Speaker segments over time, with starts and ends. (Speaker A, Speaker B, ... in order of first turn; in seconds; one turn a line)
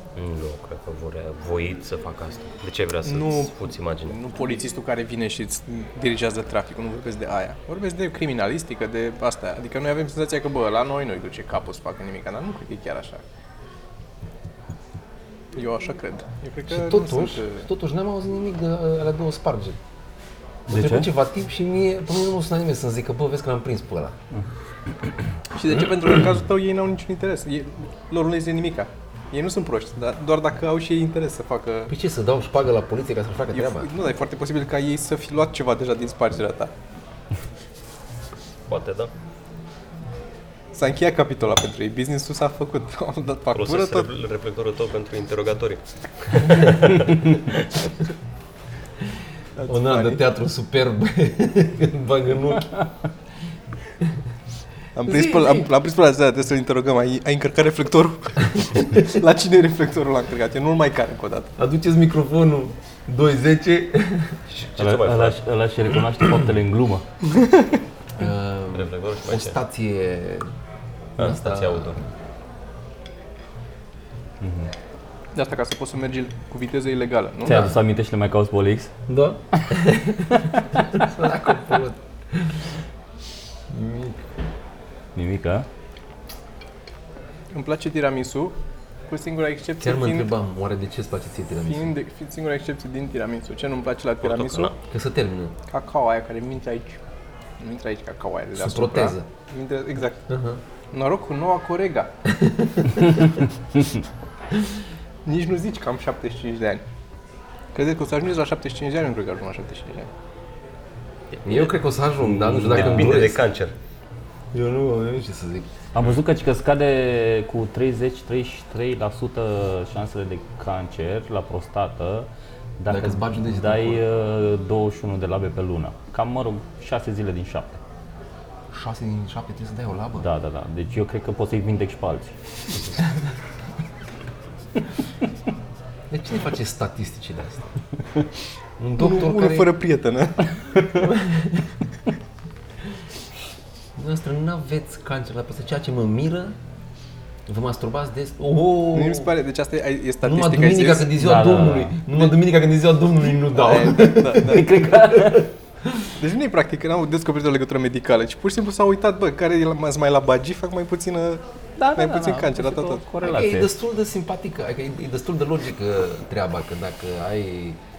Speaker A: 0.1-4.2
Speaker B: 3.0-13.2
Speaker B: 15.5-17.6
Speaker C: 16.7-19.8
Speaker D: 20.7-21.1
Speaker C: 20.7-24.1
Speaker B: 25.5-31.9
Speaker C: 31.9-33.9
Speaker B: 33.5-36.7
Speaker A: 38.7-39.1
Speaker B: 40.7-44.1
Speaker A: 43.5-47.5
Speaker B: 49.6-50.2
Speaker C: 49.7-52.9
Speaker B: 55.0-61.5
Speaker C: 55.0-55.6
Speaker C: 61.6-64.4
Speaker A: 64.5-65.4
Speaker D: 64.8-67.0
Speaker C: 68.2-70.5
Speaker A: 68.7-69.5
Speaker C: 71.2-72.0
Speaker A: 71.2-72.0
Speaker D: 74.4-74.7
Speaker B: 75.3-77.7
Speaker C: 77.4-77.8
Speaker D: 77.4-78.9
Speaker C: 79.1-82.6
Speaker C: 83.7-84.2
Speaker D: 85.1-85.7
Speaker B: 87.5-88.5
Speaker B: 89.1-90.3
Speaker C: 89.8-91.9
Speaker B: 91.6-94.8
Speaker A: 94.2-94.8
Speaker C: 94.9-95.5
Speaker B: 95.7-97.0
Speaker B: 97.6-100.3
Speaker C: 98.5-99.3
Speaker C: 100.3-100.6
Speaker B: 100.9-102.1
Speaker C: 102.3-103.1
Speaker B: 105.2-106.8
Speaker B: 107.7-110.1
Speaker A: 111.3-111.7
Speaker C: 111.4-113.4
Speaker D: 112.3-113.2
Speaker A: 112.4-113.7
Speaker C: 114.5-115.7
Speaker D: 115.9-122.3
Speaker D: 122.8-127.8
Speaker C: 122.9-124.0
Speaker C: 128.7-130.3
Speaker D: 130.2-132.3
Speaker C: 136.1-137.7
Speaker C: 138.8-139.8
Speaker B: 138.9-140.5
Speaker C: 141.0-141.7
Speaker C: 144.0-146.6
Speaker C: 147.5-149.3
Speaker B: 148.9-151.2
Speaker C: 150.2-155.5
Speaker D: 151.2-151.9
Speaker B: 153.5-154.8
Speaker D: 154.3-155.5
Speaker B: 156.2-161.4
Speaker D: 161.8-163.7
Speaker B: 161.9-163.0
Speaker C: 163.2-167.8